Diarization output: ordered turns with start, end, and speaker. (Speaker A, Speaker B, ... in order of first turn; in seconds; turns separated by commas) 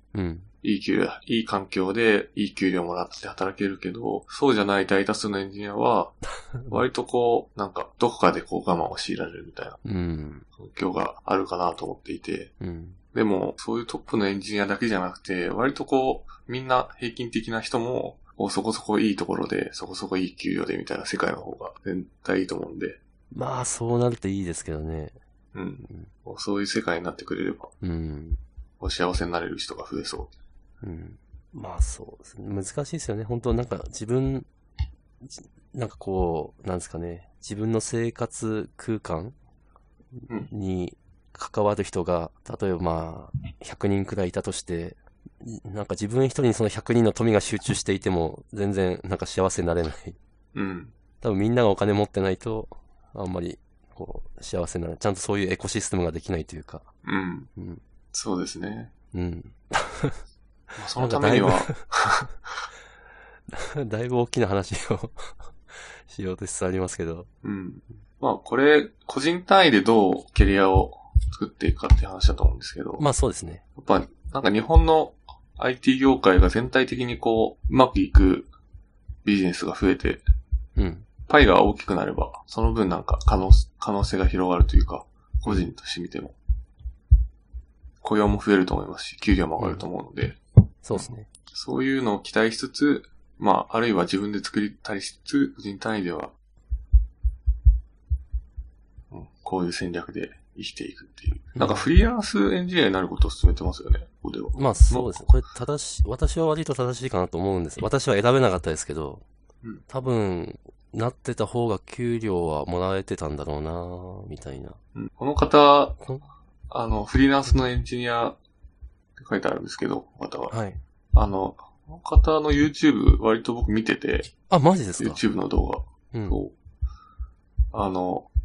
Speaker A: 0.1-0.5, Speaker B: 0.6-9.8, Speaker A: 6.5-6.8, Speaker A: 9.8-10.4, Speaker B: 10.5-12.5, Speaker A: 12.6-13.0, Speaker B: 13.1-23.0, Speaker A: 23.3-25.2, Speaker B: 25.5-27.7, Speaker A: 27.8-28.4, Speaker B: 28.8-30.3, Speaker A: 30.8-34.5, Speaker A: 35.2-39.4, Speaker A: 40.2-50.2, Speaker B: 50.5-50.9, Speaker A: 51.2-56.9, Speaker B: 57.0-57.5, Speaker A: 57.5-57.8, Speaker B: 58.1-58.9, Speaker A: 59.1-60.2, Speaker B: 60.8-62.4, Speaker A: 61.0-61.8, Speaker A: 63.5-67.3, Speaker B: 67.4-73.0, Speaker A: 73.0-73.6, Speaker B: 73.8-78.5, Speaker B: 79.2-80.2, Speaker A: 80.8-81.1, Speaker B: 81.3-86.3, Speaker B: 88.0-90.4, Speaker A: 89.6-89.9, Speaker A: 90.8-91.3, Speaker B: 90.9-96.3, Speaker B: 99.1-105.2, Speaker A: 101.5-101.9, Speaker A: 104.5-109.2, Speaker A: 109.9-114.8, Speaker B: 114.9-116.0, Speaker A: 116.0-116.2, Speaker B: 116.7-118.4, Speaker B: 119.2-120.5, Speaker A: 120.5-120.8, Speaker B: 121.1-124.3, Speaker A: 124.5-125.2, Speaker B: 125.0-126.5, Speaker A: 126.1-126.4, Speaker B: 127.7-128.3